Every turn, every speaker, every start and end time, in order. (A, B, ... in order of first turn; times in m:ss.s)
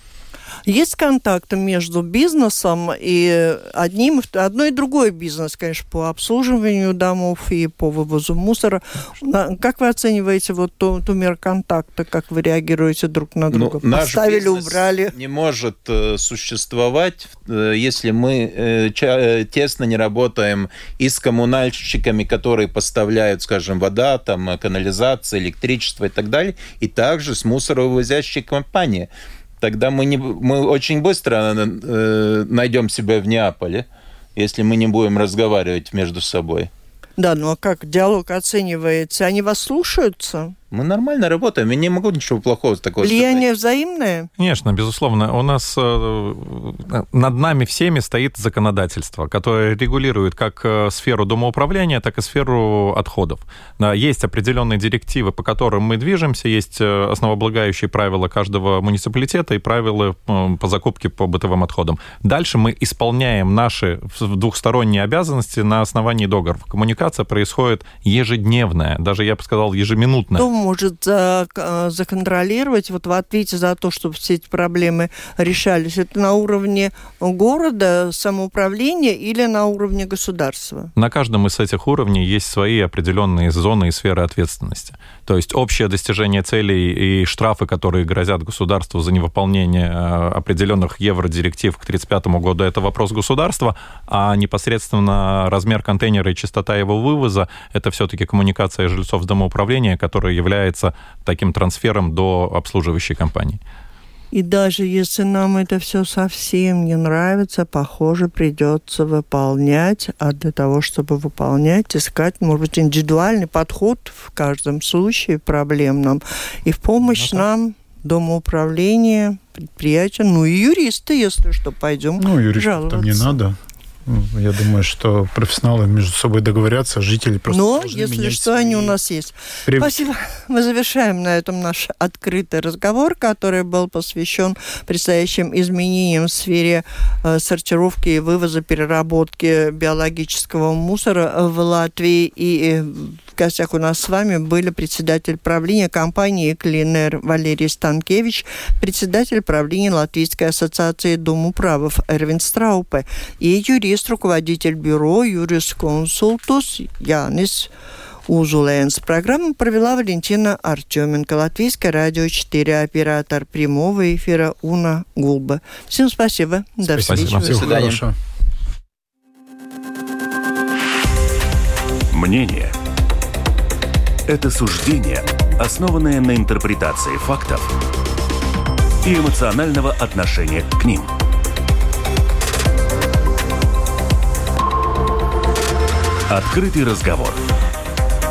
0:00.7-0:15.1 A
0:13.5-0:29.1 B
0:29.6-0:36.7 B
0:37.2-0:40.6 A
0:40.7-0:43.4 B
0:43.0-0:44.3 A
0:44.4-1:10.5 C
1:10.4-1:20.9 A
1:21.0-1:43.6 C
1:44.3-2:03.4 A
2:02.2-2:09.0 D
2:07.5-2:37.7 A
2:09.7-2:10.1 D
2:38.3-2:47.7 A
2:47.0-2:47.7 C
2:47.4-2:48.1 D
2:47.4-2:48.0 B
2:52.1-2:52.7 E
2:54.3-2:57.7 E
2:59.0-3:01.1 E
3:06.3-3:07.4 E